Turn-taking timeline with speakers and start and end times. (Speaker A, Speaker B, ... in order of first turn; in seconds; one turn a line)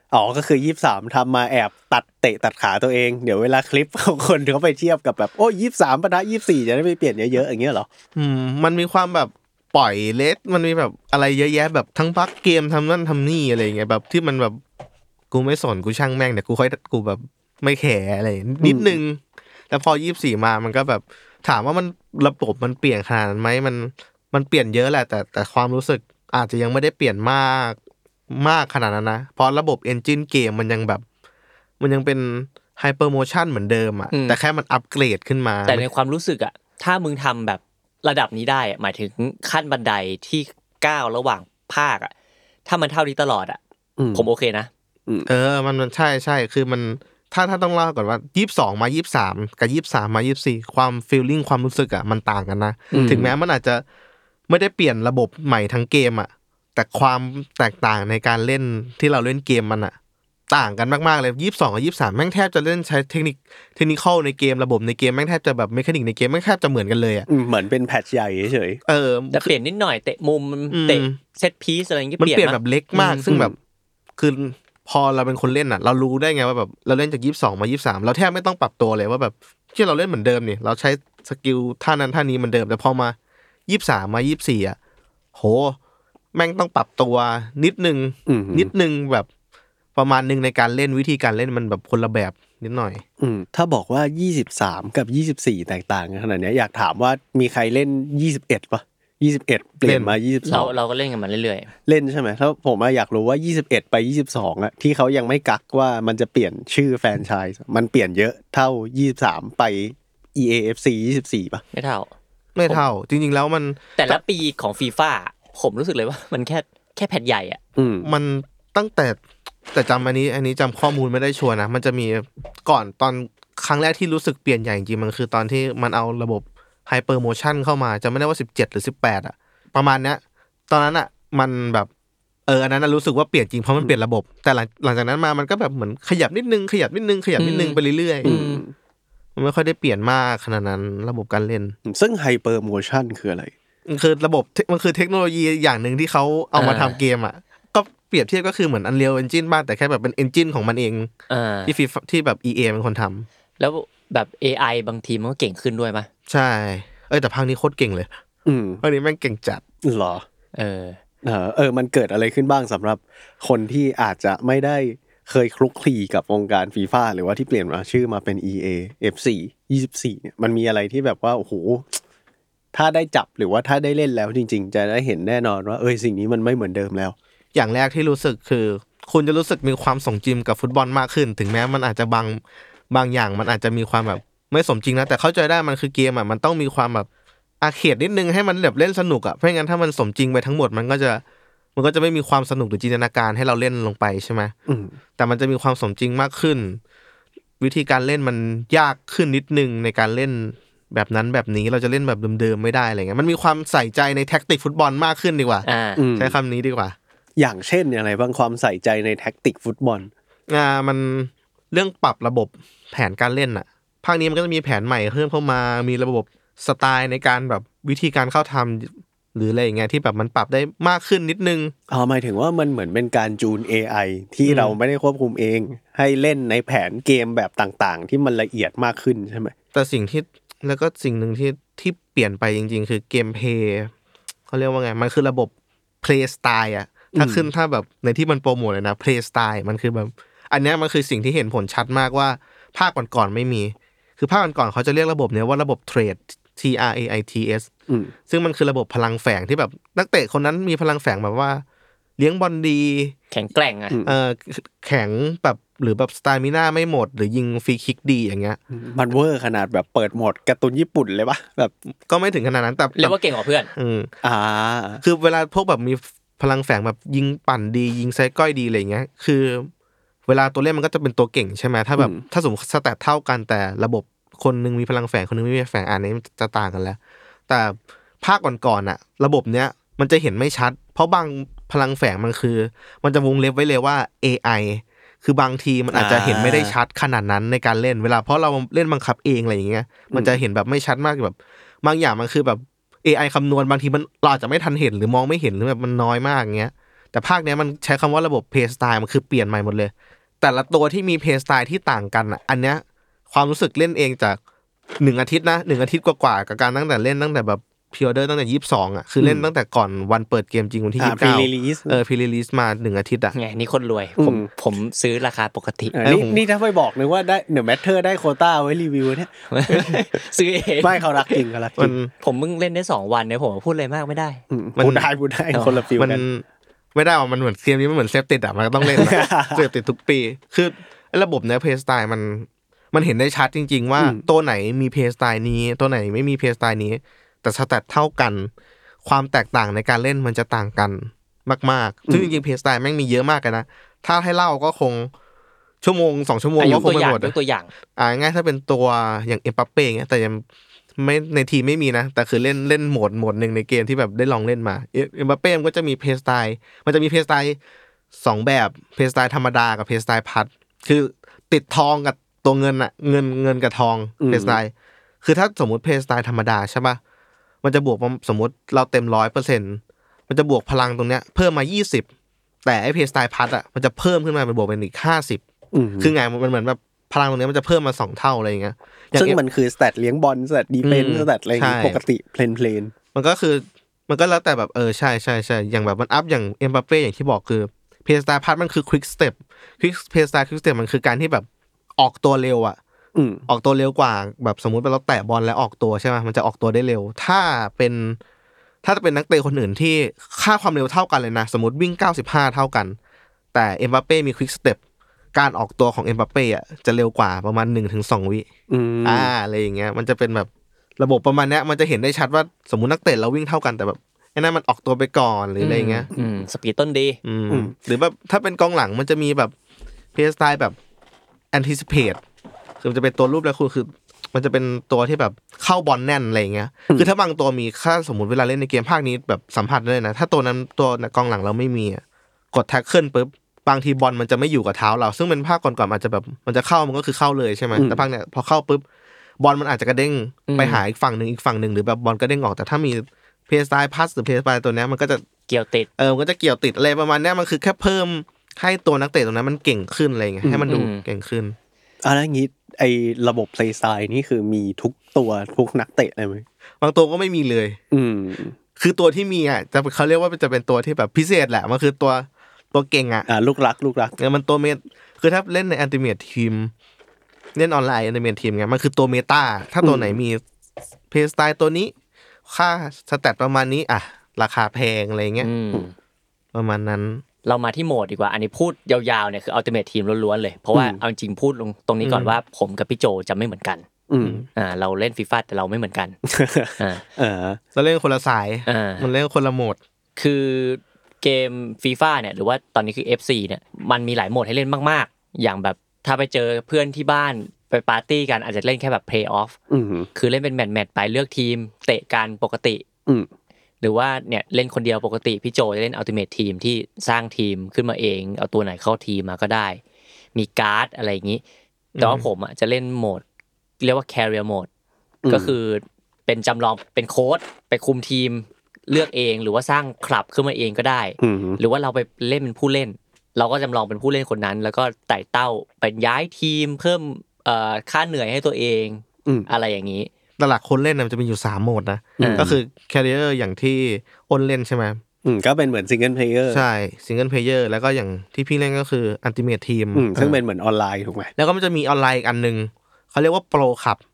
Speaker A: 0.1-7.9
Speaker B: 8.2-14.6
Speaker B: 15.3-27.8
Speaker A: 18.6-19.0
Speaker B: 28.3-31.0
Speaker B: 31.8-35.9
Speaker C: 34.1-34.4
Speaker C: 35.7-42.1
Speaker C: 42.7-43.6
Speaker A: 44.0-44.3
Speaker C: 44.1-44.7
Speaker B: 45.3-53.8
Speaker A: 52.9-53.3
Speaker C: 53.0-53.2
Speaker B: 54.5-60.0
Speaker B: 60.5-67.3
Speaker A: 67.3-68.8
Speaker B: 68.9-69.5
Speaker C: 69.3-73.3
Speaker B: 70.7-71.2
Speaker B: 72.2-73.5
Speaker A: 73.3-73.5
Speaker B: 74.2-83.2
Speaker B: 83.7-84.8
Speaker B: 85.3-85.8
Speaker B: 86.3-89.3
Speaker A: 88.3-88.7
Speaker B: 90.0-93.0
Speaker A: 93.2-100.7
Speaker B: 99.8-100.2
Speaker C: 100.5-101.7
Speaker A: 101.9-111.6
Speaker C: 111.7-112.1
Speaker B: 112.5-114.2
Speaker C: 114.0-117.6
Speaker A: 117.8-118.1
Speaker B: 118.0-119.2
Speaker B: 119.7-131.9
Speaker B: 132.5-138.4
Speaker C: 137.4-138.6
Speaker A: 138.2-138.7
Speaker B: 139.4-141.7
Speaker A: 141.9-143.5
Speaker B: 143.9-151.1
Speaker C: 146.6-147.0
Speaker C: 151.3-151.7
Speaker B: 151.7-153.3
Speaker C: 153.6-156.1
Speaker B: 156.3-158.1
Speaker A: 158.5-158.8
Speaker B: 158.8-159.6
Speaker A: 159.8-160.2
Speaker C: 160.6-161.0
Speaker A: 161.2-172.0
Speaker A: 172.7-177.2
Speaker B: 177.5-187.1
Speaker B: 187.6-191.2
Speaker B: 191.8-194.5
Speaker A: 194.7-195.0
Speaker B: 195.2-196.8
Speaker B: 197.6-207.0
Speaker C: 205.6-206.0
Speaker A: 206.0-206.4
Speaker A: 207.4-210.1
Speaker B: 210.5-221.7
Speaker A: 221.9-229.5
Speaker B: 224.4-224.8
Speaker B: 229.7-233.9
Speaker B: 234.5-247.7
Speaker A: 237.1-237.5
Speaker A: 247.9-248.1
Speaker B: 248.3-251.6
Speaker B: 252.2-253.2
Speaker C: 253.3-254.0
Speaker B: 254.0-258.6
Speaker A: 258.7-261.7
Speaker B: 262.1-263.2
Speaker C: 262.9-263.7
Speaker B: 263.7-264.1
Speaker A: 264.2-265.0
Speaker B: 265.0-269.7
Speaker B: 270.3-304.4
Speaker A: 272.0-272.2
Speaker A: 285.9-286.8
Speaker A: 290.1-290.4
Speaker B: 305.0-313.4
Speaker A: 309.2-309.5
Speaker A: 311.0-312.0
Speaker C: 313.3-316.0
Speaker A: 314.2-314.5
Speaker A: 315.9-320.0
Speaker B: 316.0-316.4
Speaker C: 319.5-321.4
Speaker A: 320.8-321.9
Speaker B: 321.8-322.1
Speaker C: 322.2-324.4
Speaker A: 324.5-326.2
Speaker B: 324.8-325.1
Speaker C: 325.5-325.8
Speaker B: 325.9-326.4
Speaker B: 326.9-338.5
Speaker A: 328.9-329.7
Speaker B: 339.0-345.1
Speaker A: 342.1-342.3
Speaker B: 345.8-347.4
Speaker C: 346.6-347.7
Speaker B: 348.0-350.4
Speaker B: 351.0-357.6
Speaker B: 358.1-364.7
Speaker A: 364.2-364.6
Speaker B: 365.2-367.0
Speaker B: 367.6-372.1
Speaker B: 372.6-375.4
Speaker A: 375.7-376.1
Speaker B: 376.0-379.4
Speaker A: 379.1-382.9
Speaker B: 380.8-382.0
Speaker B: 383.1-391.5
Speaker B: 392.0-392.8
Speaker A: 393.1-393.4
Speaker B: 393.5-398.2
Speaker B: 398.8-403.0
Speaker B: 403.5-404.8
Speaker B: 405.3-408.5
Speaker A: 408.7-409.3
Speaker B: 409.0-416.1
Speaker C: 415.6-417.2
Speaker B: 417.2-419.5
Speaker B: 420.1-420.8
Speaker B: 421.5-422.2
Speaker B: 422.8-438.8
Speaker A: 437.8-438.0
Speaker B: 439.4-445.2
Speaker C: 440.5-440.8
Speaker C: 445.5-445.9
Speaker B: 446.0-451.6
Speaker A: 450.4-450.7
Speaker C: 450.7-451.1
Speaker A: 452.0-456.4
Speaker B: 456.8-457.8
Speaker A: 457.9-458.6
Speaker B: 458.8-463.3
Speaker A: 463.3-464.1
Speaker B: 464.2-466.7
Speaker B: 467.6-470.4
Speaker A: 469.8-470.2
Speaker B: 471.1-471.9
Speaker B: 472.5-475.5
Speaker C: 475.4-475.9
Speaker B: 476.5-477.2
Speaker C: 477.4-483.9
Speaker A: 480.7-481.0
Speaker B: 482.0-482.4
Speaker A: 484.1-484.4
Speaker B: 484.2-484.5
Speaker C: 484.6-486.2
Speaker A: 486.3-487.6
Speaker C: 486.8-487.0
Speaker B: 487.8-489.8
Speaker C: 488.7-489.1
Speaker C: 490.2-499.6
Speaker A: 499.7-500.1
Speaker C: 500.1-502.9
Speaker C: 503.8-509.8
Speaker C: 510.4-511.4
Speaker B: 512.0-512.3
Speaker C: 512.0-513.2
Speaker C: 513.8-514.7
Speaker A: 515.2-515.6
Speaker C: 515.3-530.1
Speaker A: 521.2-521.6
Speaker B: 530.4-535.0
Speaker A: 532.2-532.6
Speaker C: 532.2-532.5
Speaker A: 535.2-536.6
Speaker B: 536.5-540.4
Speaker A: 540.0-541.3
Speaker B: 541.4-544.0